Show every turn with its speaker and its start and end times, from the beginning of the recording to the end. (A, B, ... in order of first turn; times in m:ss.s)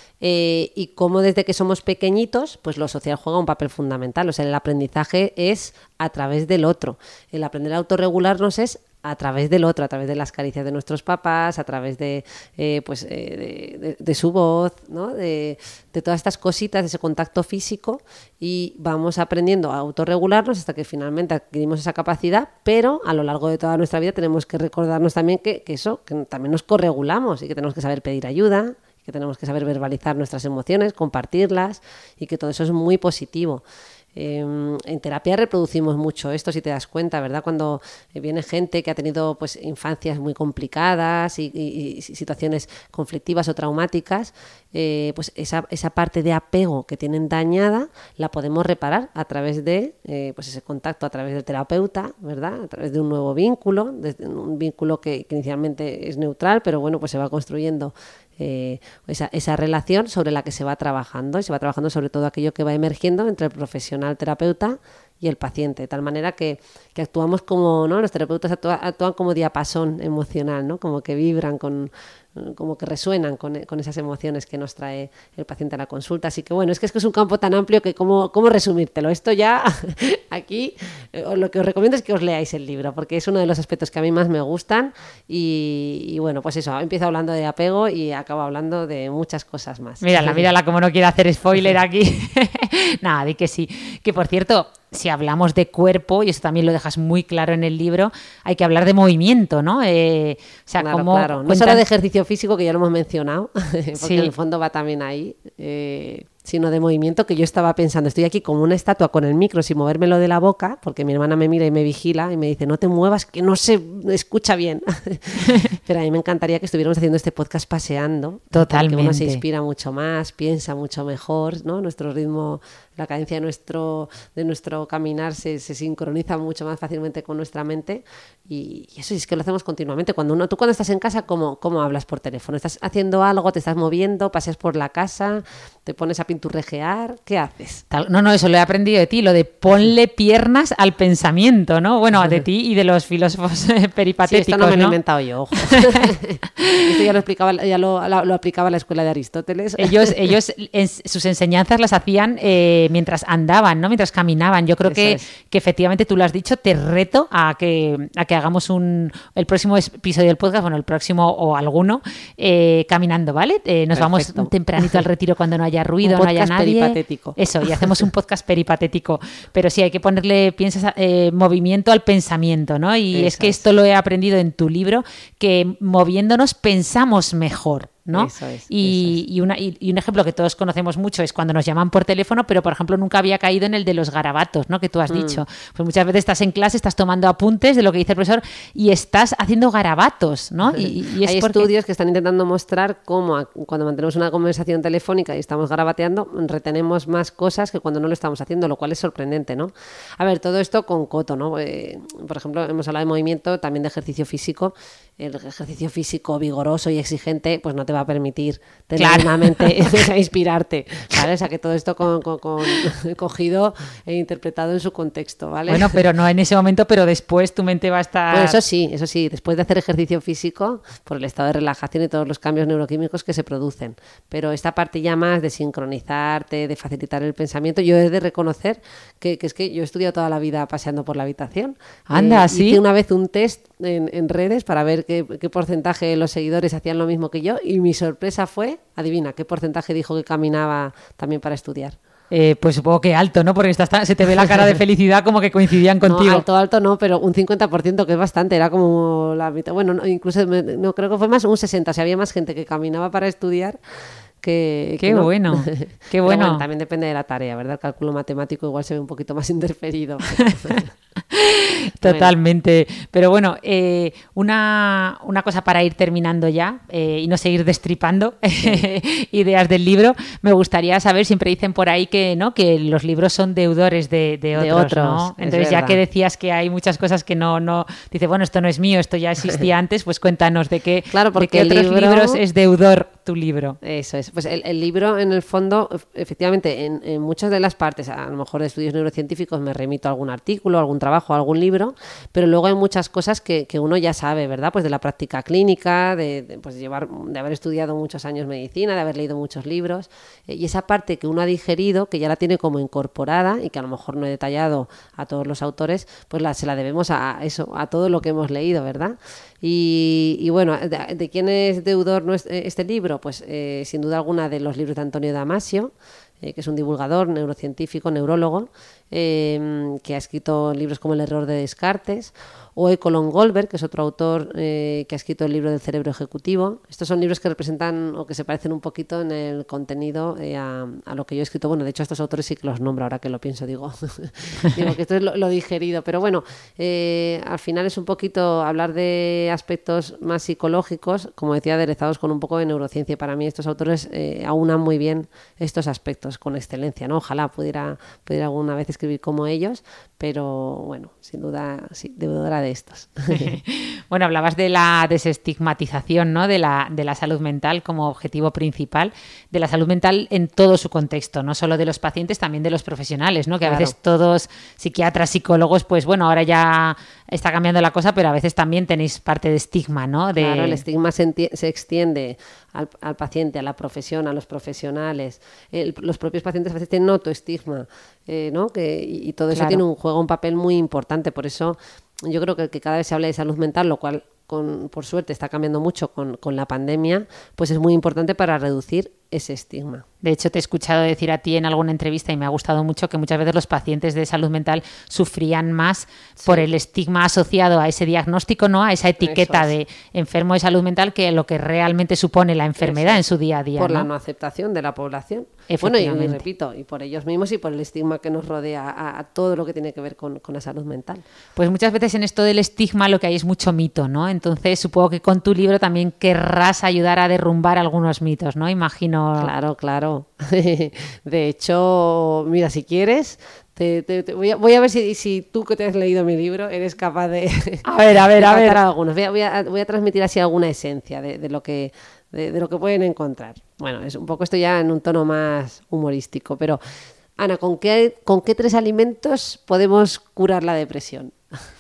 0:00.2-1:30.5 A
1:30.0-1:41.8 B
1:40.8-2:17.8 A
1:44.0-1:44.3 B
1:58.5-1:59.4 B
2:17.9-2:25.0 B
2:24.2-2:30.2 A
2:25.6-2:26.0 B
2:29.8-3:11.7 B
2:34.8-2:35.2 A
2:43.9-2:45.1 A
2:46.0-2:48.1 A
2:53.1-2:53.6 A
2:58.1-2:59.2 A
3:05.1-3:05.4 A
3:10.7-3:36.0 A
3:29.0-3:29.9 B
3:35.7-3:38.6 B
3:38.3-4:02.0 A
3:52.1-3:52.8 B
4:02.3-4:06.4 B
4:06.0-4:13.8 A
4:14.4-4:20.9 A
4:15.0-4:16.6 B
4:21.3-4:43.8 B
4:22.0-4:22.4 A
4:34.6-4:36.0 A
4:41.1-4:42.4 A
4:43.8-5:53.6 A
5:53.3-6:10.8 B
6:03.6-6:03.9 A
6:10.4-6:30.0 A
6:19.5-6:19.8 B
6:30.2-6:44.1 B
6:36.4-6:36.7 A
6:39.2-6:39.7 A
6:42.8-6:43.2 A
6:43.8-6:51.2 A
6:45.7-6:46.5 B
6:51.6-6:59.5 B
6:59.4-7:16.8 A
7:07.8-7:08.8 B
7:17.4-7:21.4 A